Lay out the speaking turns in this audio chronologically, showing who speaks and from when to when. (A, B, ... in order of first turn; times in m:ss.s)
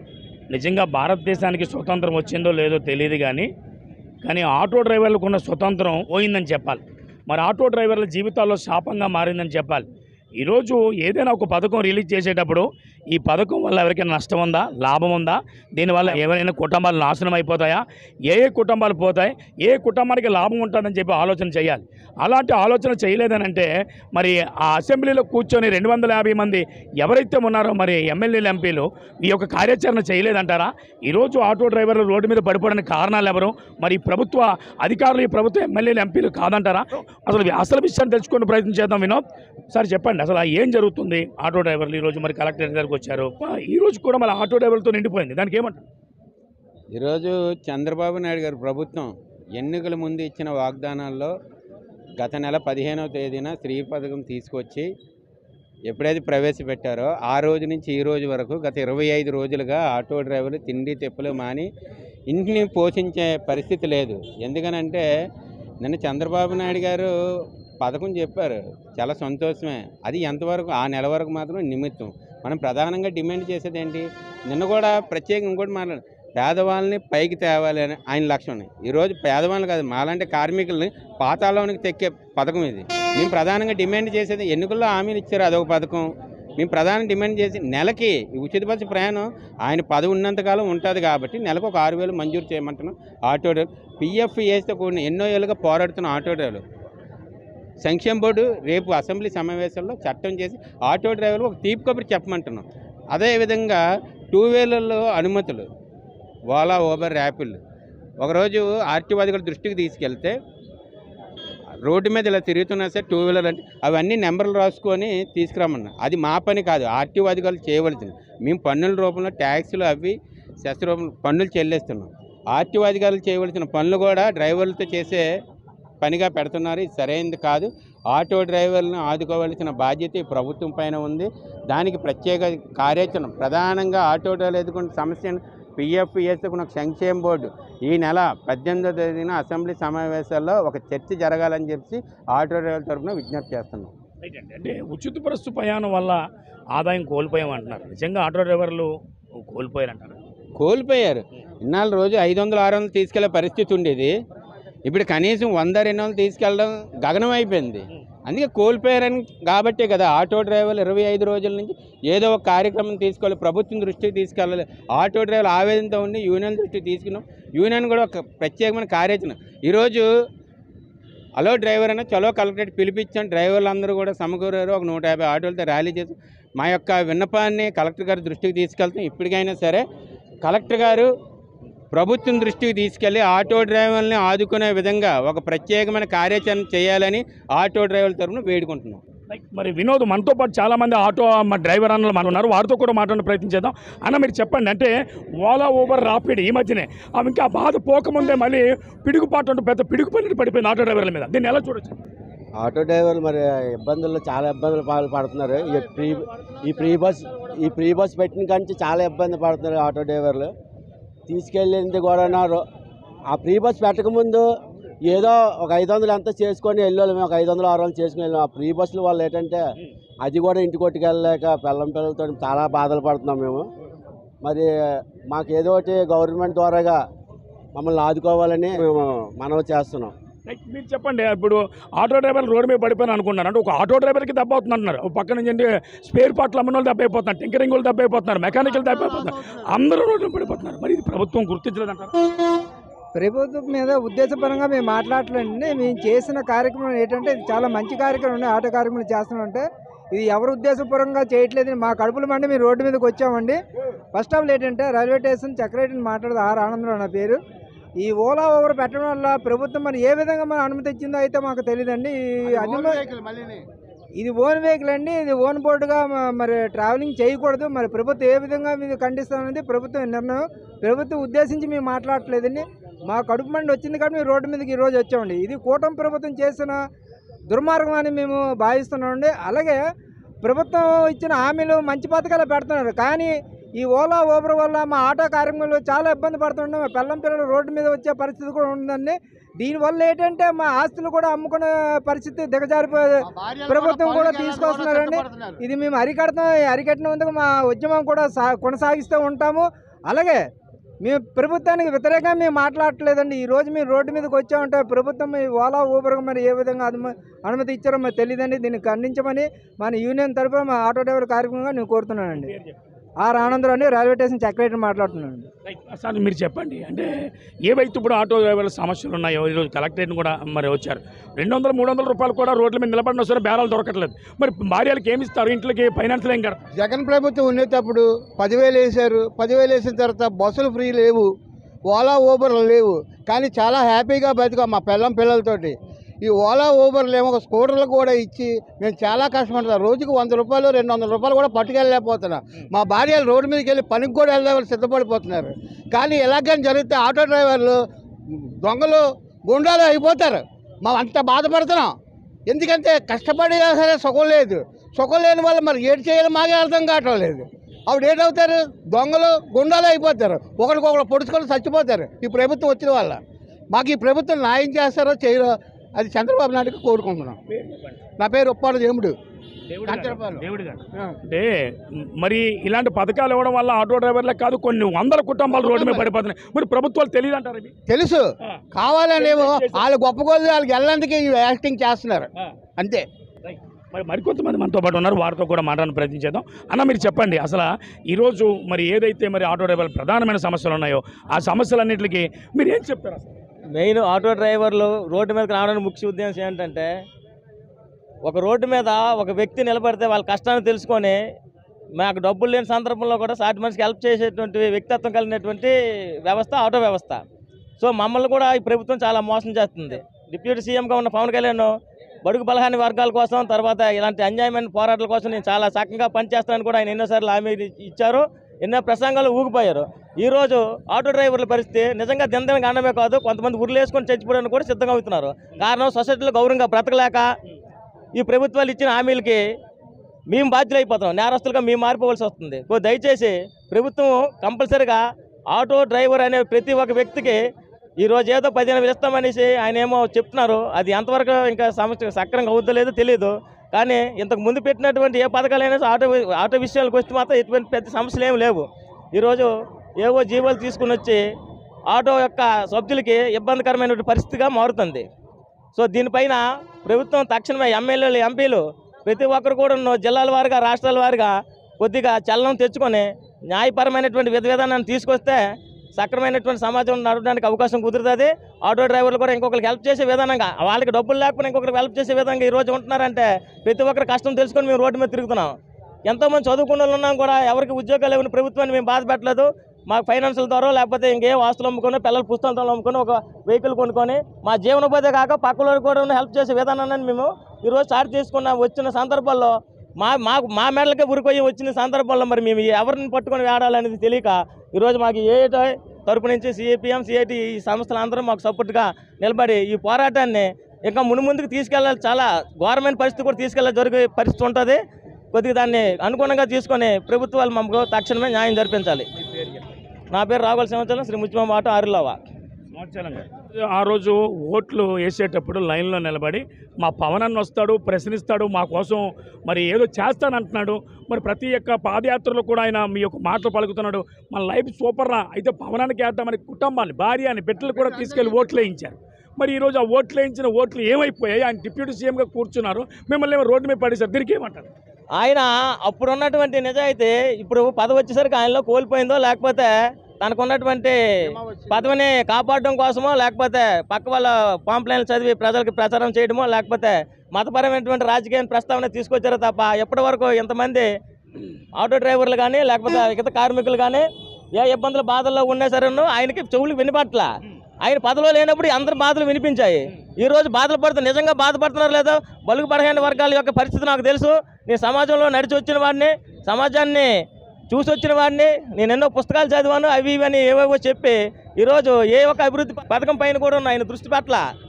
0:00.5-0:03.5 A
0:04.2-0:09.9 A
0:10.4-0:45.8 A
0:46.9-0:51.3 B
0:52.2-0:54.9 B
0:55.8-1:01.7 B
1:02.3-1:05.0 B
1:05.8-1:07.1 B
1:07.8-1:36.6 B
1:37.8-1:43.8 B
1:44.3-1:45.7 B
1:46.5-1:47.6 B
1:48.2-1:50.4 B
1:51.8-2:05.2 B
2:06.0-2:23.9 B
2:24.2-2:26.2 A
2:26.7-2:30.2 A
2:30.6-2:34.1 B
2:34.8-2:50.0 B
2:51.4-2:59.8 B
3:00.4-3:01.1 B
3:01.9-3:09.0 B
3:09.3-3:22.0 A
3:22.6-3:30.5 C
3:31.3-3:32.6 C
3:33.3-3:34.5 C
3:35.1-3:39.6 C
3:40.2-3:43.6 C
3:44.4-3:44.7 C
3:45.3-3:47.0 C
3:47.7-3:50.1 C
3:50.4-4:02.1 A
4:03.1-4:13.6 D
4:14.1-4:17.4 D
4:18.0-4:23.1 D
4:24.2-4:36.8 D
4:37.5-4:39.8 D
4:40.4-5:00.4 D
5:01.0-5:12.5 D
5:12.3-5:12.8 A
5:13.2-5:15.5 D
5:15.6-5:17.1 A
5:17.6-5:26.6 A
5:26.8-5:31.2 E
5:31.9-5:47.8 E
5:48.6-5:51.9 E
5:52.5-6:03.2 E
6:03.7-6:07.4 E
6:07.5-6:08.0 A
6:08.2-6:09.1 E
6:09.7-6:11.5 A
6:09.9-6:10.3 E
6:12.2-6:17.7 A
6:17.9-6:18.2 E
6:18.8-6:19.2 E
6:19.2-6:19.8 A
6:20.2-6:22.2 E
6:23.5-6:33.3 A
6:33.8-6:36.9 F
6:38.2-6:41.2 F
6:42.0-6:47.2 F
6:47.8-6:51.7 F
6:52.2-7:07.3 F
7:08.2-7:09.4 F
7:10.3-7:15.0 F
7:15.5-7:17.4 F
7:18.0-7:29.5 F
7:30.0-7:31.2 F
7:31.9-7:35.0 F
7:35.8-7:45.4 F
7:46.0-7:55.5 F
7:56.1-8:24.8 F
8:25.3-8:29.0 F
8:29.2-8:29.6 A
8:30.1-8:32.2 F
8:32.7-8:54.7 A
8:55.2-9:10.9 F
9:11.7-9:17.3 F
9:17.8-9:27.1 F
9:27.7-9:34.4 F